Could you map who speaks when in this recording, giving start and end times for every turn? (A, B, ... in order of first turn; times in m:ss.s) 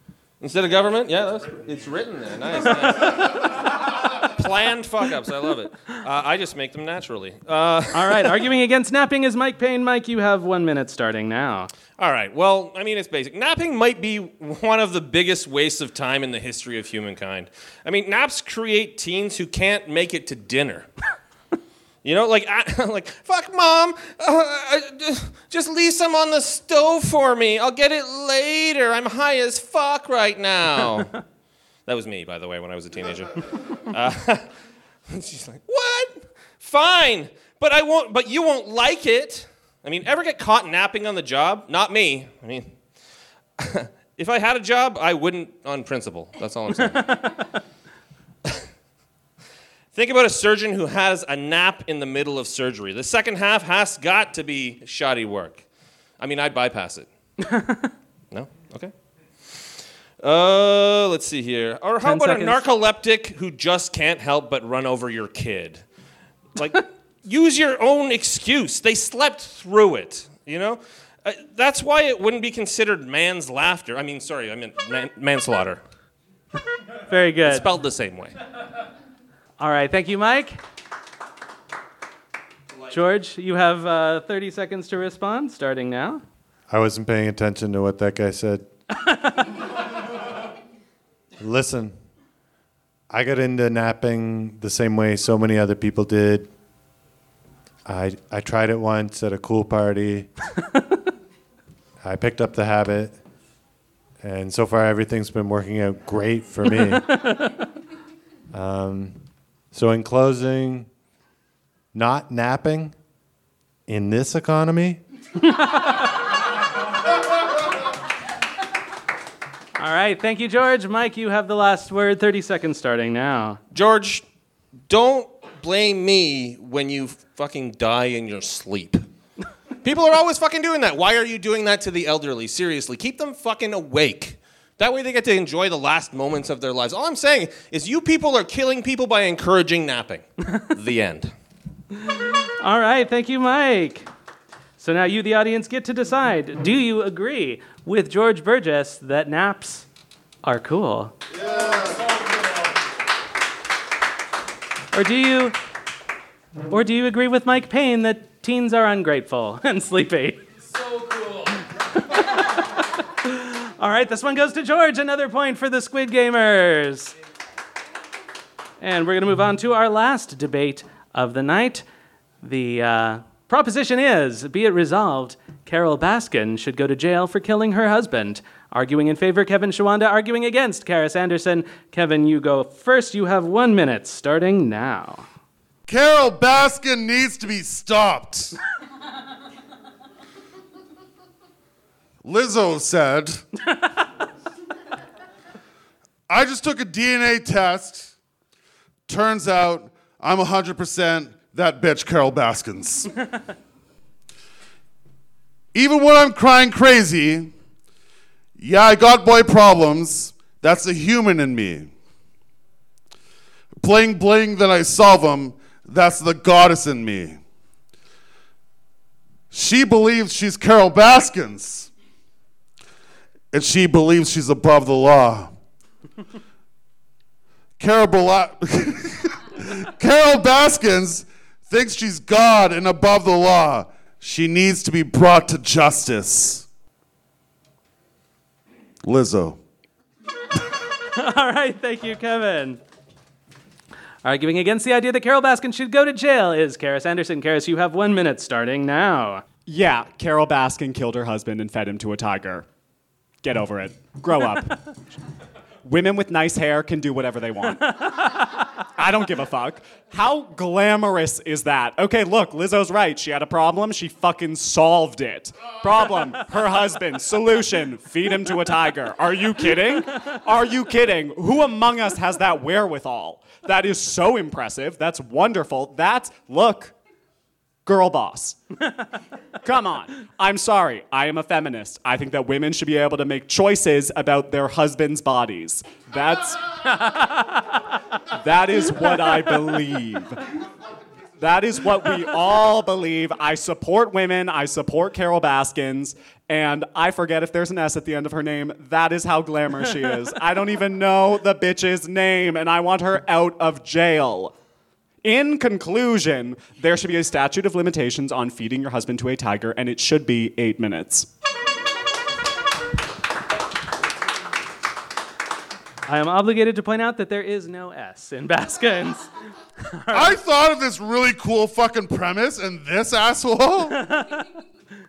0:00.4-0:08.4 A
0:07.9-0:11.7 B
0:12.0-0:20.9 A
0:22.0-0:31.2 A
0:31.8-0:34.5 A
0:35.1-0:42.7 A
0:43.6-0:47.4 A
0:49.9-0:55.6 A
0:56.2-0:57.1 A
0:57.5-0:57.9 B
0:58.3-0:58.9 A
0:59.4-1:05.8 A
1:02.0-1:02.6 B
1:06.5-1:15.8 A
1:17.1-1:17.7 B
1:17.4-1:18.4 A
1:19.6-1:20.6 B
1:22.9-1:26.2 B
1:26.7-1:28.7 C
1:29.0-1:29.6 B
1:31.4-1:32.0 C
1:33.1-1:36.5 C
1:37.8-1:40.3 C
1:42.0-1:43.2 C
1:44.2-1:47.2 C
1:48.5-1:50.9 C
1:51.9-1:53.0 C
1:53.9-1:55.0 C
1:55.4-1:56.0 B
1:59.8-2:03.6 B
2:03.7-2:04.2 A
2:04.9-2:09.1 A
2:09.8-2:21.3 A
2:21.9-2:24.1 B
2:24.8-2:29.9 B
2:30.4-2:31.1 B
2:31.4-2:32.0 D
2:34.9-2:35.6 B
2:36.7-2:40.4 B
2:42.0-2:47.1 B
2:48.8-2:51.8 B
2:52.4-3:05.2 B
3:05.9-3:08.6 D
3:12.2-3:13.4 D
3:16.3-3:18.1 D
3:19.1-3:23.1 D
3:25.7-3:27.5 D
3:28.6-3:31.9 D
3:33.8-3:37.4 D
3:39.5-3:41.9 D
3:43.5-3:45.5 D
3:47.8-3:56.7 D
3:59.0-3:59.6 D
4:01.1-4:02.8 B
4:04.2-4:09.4 B
4:09.6-4:12.6 E
4:13.4-4:15.0 E
4:15.8-4:36.9 E
4:37.8-4:38.6 E
4:39.6-4:47.1 E
4:47.1-4:47.6 B
4:48.3-4:50.4 E
4:51.4-5:04.5 E
5:05.2-5:11.3 E
5:16.1-5:19.3 B
5:19.8-5:20.4 B
5:20.1-5:24.1 D
5:23.9-5:24.6 B